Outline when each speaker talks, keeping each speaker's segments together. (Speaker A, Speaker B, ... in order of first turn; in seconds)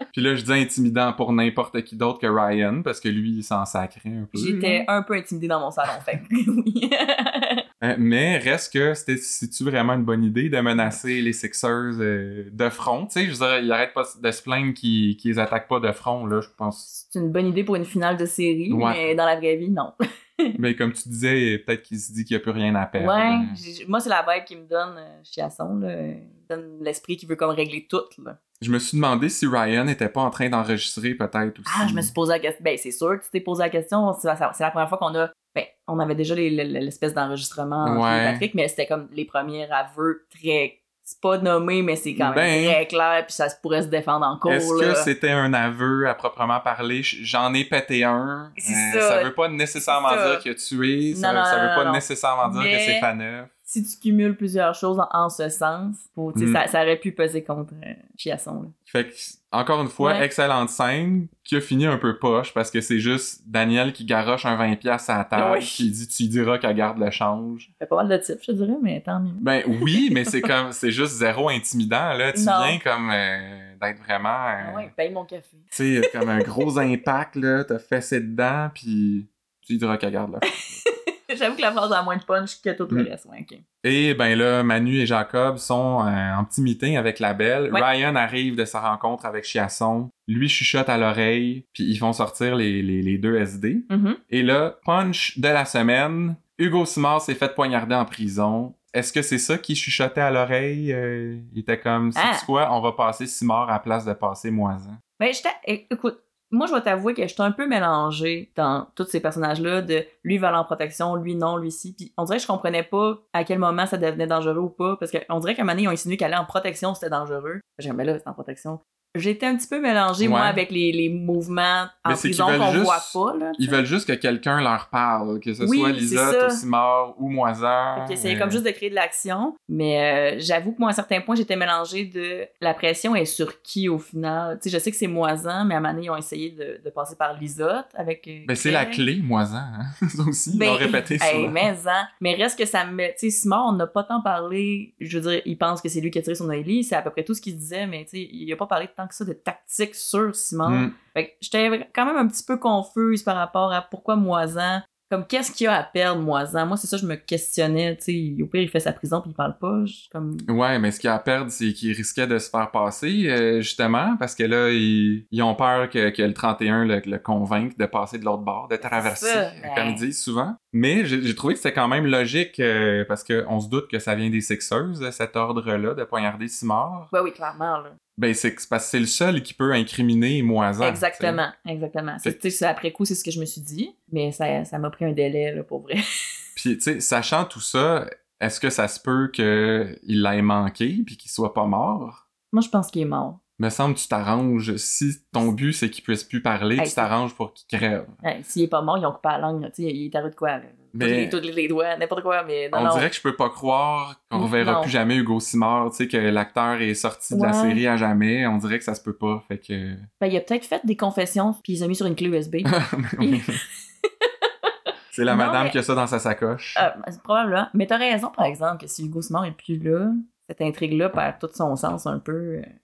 Speaker A: 0.1-4.9, 7.8-16.9, 18.7-19.1, 20.6-23.6, 28.6-32.1, 37.8-38.5, 42.2-42.8, 44.5-53.5, 56.4-56.6, 58.9-67.7, 69.4-74.9, 75.7-80.8, 83.8-105.0, 120.2-120.6, 122.1-128.6, 138.5-141.7, 150.7-150.9, 160.5-177.1, 178.2-181.4, 186.6-192.2, 193.6-198.2, 200.9-201.4, 202.7-210.1, 212.7-213.6, 215.1-216.9
Speaker B: 4.3-7.6, 16.9-20.6, 23.0-28.4, 31.7-45.1, 48.6-49.3, 49.8-50.4, 51.1-53.1, 53.7-58.7, 60.0-60.3, 65.3-65.9, 67.8-70.5, 72.3-72.8, 74.6-76.5, 80.7-83.6, 93.9-94.2, 102.2-102.5, 105.2-123.8, 125.6-126.6, 128.0-139.0, 140.5-160.5, 168.8-170.0, 177.1-178.0, 180.8-186.3, 192.5-193.4, 196.8-197.1, 198.2-203.1, 204.3-204.9, 207.3-207.8, 210.2-213.5, 214.0-214.7, 215.3-215.8, 216.8-222.7